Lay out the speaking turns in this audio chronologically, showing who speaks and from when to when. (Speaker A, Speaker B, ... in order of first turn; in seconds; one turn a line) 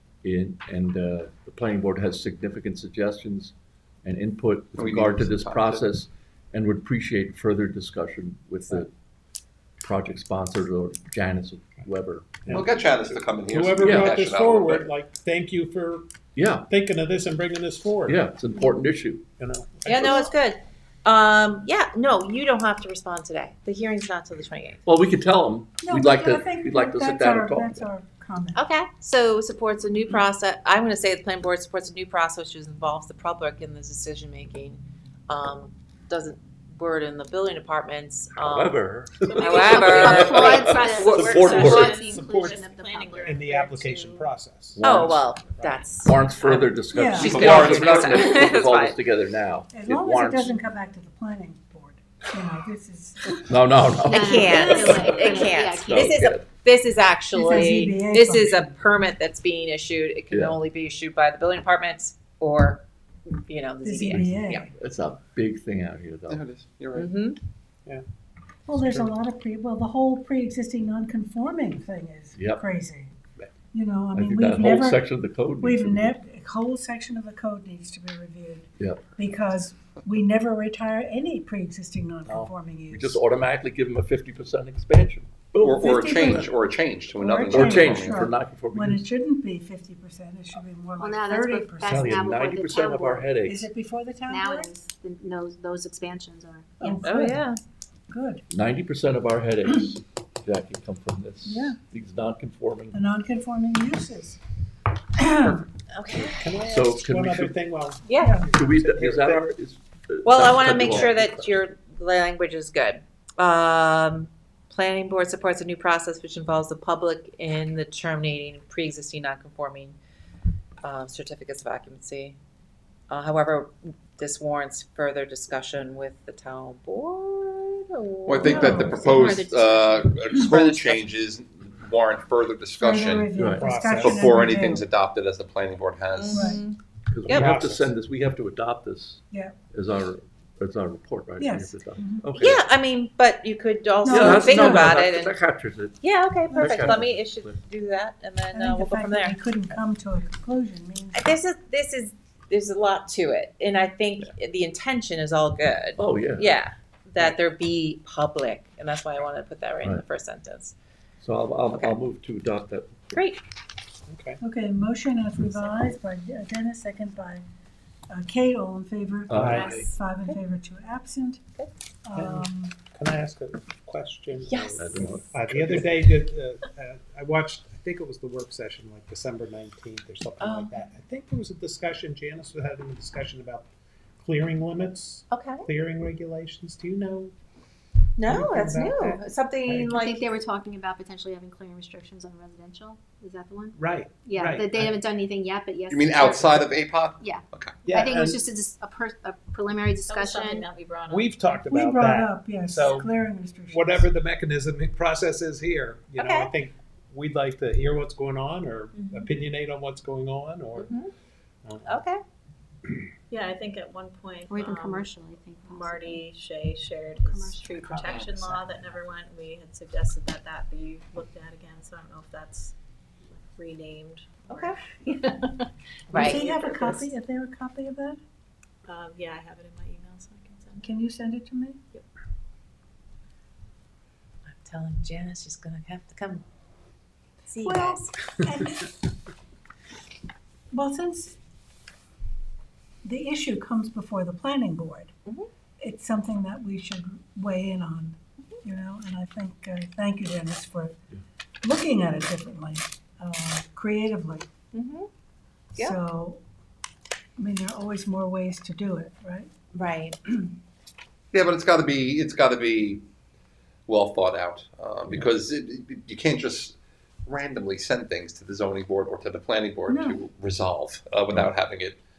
Speaker A: 0.2-8.9
Speaker B: 4.8-5.9
Speaker A: 9.8-12.6
Speaker C: 12.4-16.1
Speaker B: 12.5-14.9
Speaker A: 13.8-14.3
Speaker A: 16.4-16.7
Speaker C: 16.7-18.2
Speaker A: 18.1-19.2
Speaker C: 19.4-20.3
Speaker D: 19.9-24.8
Speaker A: 24.9-27.9
Speaker E: 25.8-28.6
Speaker D: 28.6-41.5
Speaker A: 38.4-42.0
Speaker F: 39.4-43.4
Speaker G: 40.3-44.3
Speaker C: 41.2-42.7
Speaker C: 43.2-45.0
Speaker A: 44.7-45.3
Speaker D: 44.8-49.0
Speaker C: 45.5-45.9
Speaker A: 46.0-50.7
Speaker E: 47.0-47.4
Speaker B: 47.2-48.5
Speaker E: 49.7-53.5
Speaker A: 53.5-55.3
Speaker D: 54.0-64.7
Speaker F: 54.1-56.2
Speaker A: 55.8-56.5
Speaker E: 57.3-58.6
Speaker A: 60.3-60.6
Speaker E: 63.8-64.7
Speaker A: 64.1-66.4
Speaker B: 66.3-67.1
Speaker D: 66.9-67.4
Speaker E: 68.7-73.1
Speaker C: 68.7-69.1
Speaker A: 72.4-72.7
Speaker E: 73.7-75.1
Speaker A: 74.1-76.2
Speaker E: 75.6-83.2
Speaker A: 78.8-79.1
Speaker A: 82.3-86.5
Speaker B: 85.6-88.3
Speaker E: 85.8-86.4
Speaker E: 87.2-92.0
Speaker A: 87.5-89.1
Speaker F: 91.0-93.5
Speaker A: 91.8-93.7
Speaker E: 93.5-94.7
Speaker F: 94.3-97.0
Speaker E: 96.8-97.5
Speaker D: 97.0-97.6
Speaker E: 98.1-98.4
Speaker A: 98.5-103.1
Speaker E: 101.5-101.8
Speaker E: 102.9-104.4
Speaker E: 105.2-105.7
Speaker D: 105.9-106.5
Speaker C: 106.2-109.5
Speaker A: 106.6-107.5
Speaker D: 108.0-108.4
Speaker E: 108.2-108.5
Speaker A: 108.5-111.2
Speaker D: 110.2-120.0
Speaker C: 110.4-111.4
Speaker D: 120.8-122.4
Speaker D: 123.1-131.1
Speaker B: 128.3-133.3
Speaker E: 128.5-129.0
Speaker F: 129.0-129.9
Speaker E: 132.8-134.8
Speaker A: 133.3-133.7
Speaker C: 133.5-134.3
Speaker B: 134.0-136.5
Speaker D: 136.1-137.6
Speaker A: 137.1-142.7
Speaker C: 137.3-137.9
Speaker E: 139.3-139.6
Speaker E: 141.4-142.3
Speaker D: 142.3-145.4
Speaker E: 144.0-144.9
Speaker A: 144.1-147.6
Speaker D: 146.0-149.7
Speaker E: 146.5-146.9
Speaker E: 148.5-151.3
Speaker D: 151.1-160.8
Speaker A: 156.0-156.6
Speaker A: 161.2-163.2
Speaker D: 163.1-163.4
Speaker C: 164.1-164.4
Speaker E: 164.4-167.4
Speaker E: 168.1-171.4
Speaker A: 169.3-169.8
Speaker C: 169.3-169.8
Speaker G: 169.5-169.8
Speaker D: 169.5-170.4
Speaker E: 172.1-172.8
Speaker C: 172.2-187.3
Speaker D: 174.5-175.1
Speaker A: 174.8-176.0
Speaker D: 180.4-180.8
Speaker D: 185.3-185.7
Speaker D: 188.2-190.3
Speaker C: 188.2-189.8
Speaker F: 189.7-200.7
Speaker C: 193.8-195.0
Speaker B: 195.9-197.9
Speaker C: 197.9-198.4
Speaker G: 200.1-201.6
Speaker C: 201.1-203.1
Speaker E: 201.7-204.0
Speaker C: 203.7-211.0
Speaker D: 206.2-206.5
Speaker G: 209.0-209.3
Speaker D: 210.8-211.1
Speaker C: 211.7-212.0
Speaker D: 211.8-212.2
Speaker G: 213.3-215.1
Speaker F: 214.5-216.2
Speaker G: 215.7-227.1
Speaker D: 224.5-224.8
Speaker D: 226.1-226.5
Speaker E: 226.3-228.2
Speaker G: 228.9-230.9
Speaker E: 230.8-231.8
Speaker D: 234.5-236.4
Speaker D: 237.5-238.2
Speaker E: 237.6-238.9
Speaker E: 240.7-241.4
Speaker E: 243.0-245.1
Speaker E: 245.8-251.0
Speaker E: 251.6-254.5
Speaker D: 254.7-255.1
Speaker E: 255.8-256.4
Speaker E: 257.4-259.5
Speaker D: 259.7-260.2
Speaker B: 261.3-263.0
Speaker B: 263.9-272.0
Speaker E: 269.9-270.2